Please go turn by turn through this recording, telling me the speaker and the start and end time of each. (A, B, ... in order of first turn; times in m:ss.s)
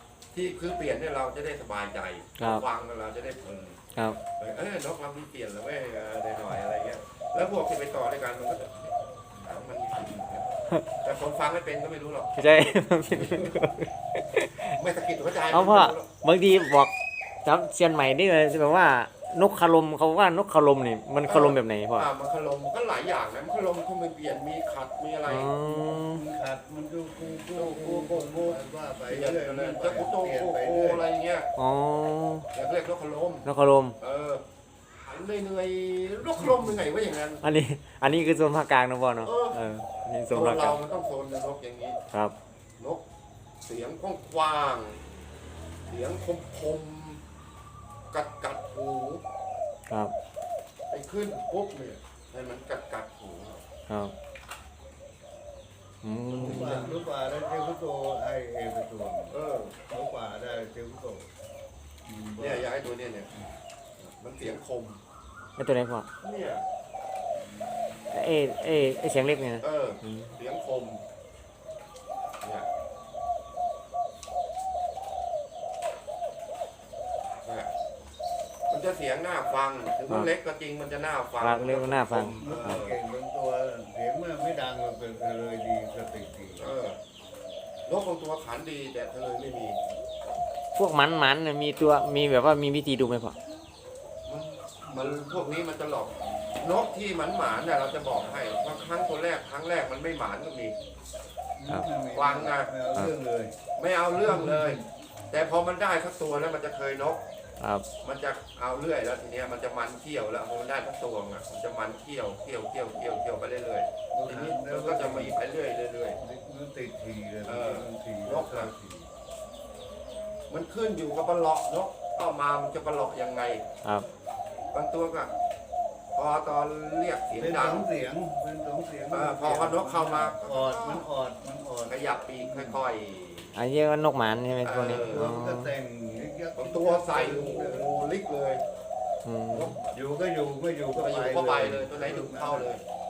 0:00.3-0:03.8 A
0:02.4-0:02.6 B
0:03.9-0:04.2 B
0:04.4-0:12.3 A
0:12.4-0:14.8 B
0:13.1-0:13.7 A
0:14.6-0:16.1 A
0:15.5-0:16.9 B
0:17.4-0:22.1 B
0:21.3-0:25.6 A
0:25.2-0:26.2 B
0:25.7-0:31.0 C
0:27.5-0:31.5 A
0:31.6-0:32.5 B
0:32.5-0:33.5 A
0:33.4-0:34.0 B
0:34.0-0:34.4 A
0:35.0-0:37.4 A
0:37.4-0:40.8 B
0:39.2-0:39.6 A
0:40.3-0:42.0 A
0:42.8-0:43.0 A
0:43.6-0:45.0 A
0:45.9-0:47.2 A
0:48.1-0:49.2 A
0:50.9-0:53.6 A
0:53.9-0:54.1 B
0:56.0-0:57.0 B
0:56.3-0:59.4 C
0:59.3-0:59.8 A
0:59.9-1:01.3 C
1:02.0-1:02.7 C
1:02.4-1:03.3 A
1:04.0-1:05.0 A
1:05.6-1:06.1 B
1:06.2-1:06.6 A
1:08.1-1:10.3 B
1:09.6-1:11.0 A
1:12.4-1:12.7 A
1:17.4-1:17.7 A
1:18.7-1:23.0 A
1:21.4-1:22.8 B
1:22.4-1:26.7 C
1:26.6-1:27.0 A
1:27.9-1:29.8 A
1:30.7-1:33.4 B
1:34.2-1:40.8 A
1:41.6-1:43.5 C
1:42.1-1:42.7 A
1:43.8-1:47.2 A
1:44.3-1:44.8 C
1:47.6-1:47.8 B
1:48.0-1:56.2 A
1:54.1-1:55.4 C
1:56.2-1:59.1 C
1:57.4-1:58.7 A
2:00.5-2:03.6 A
2:04.7-2:05.3 A
2:06.1-2:07.9 A
2:07.3-2:12.8 C
2:09.1-2:11.1 A
2:11.9-2:13.5 A
2:13.5-2:15.7 B
2:14.6-2:15.3 A
2:14.9-2:18.0 C
2:16.6-2:18.6 A
2:19.2-2:19.8 B
2:19.5-2:20.0 A
2:19.9-2:22.7 C
2:20.9-2:22.8 A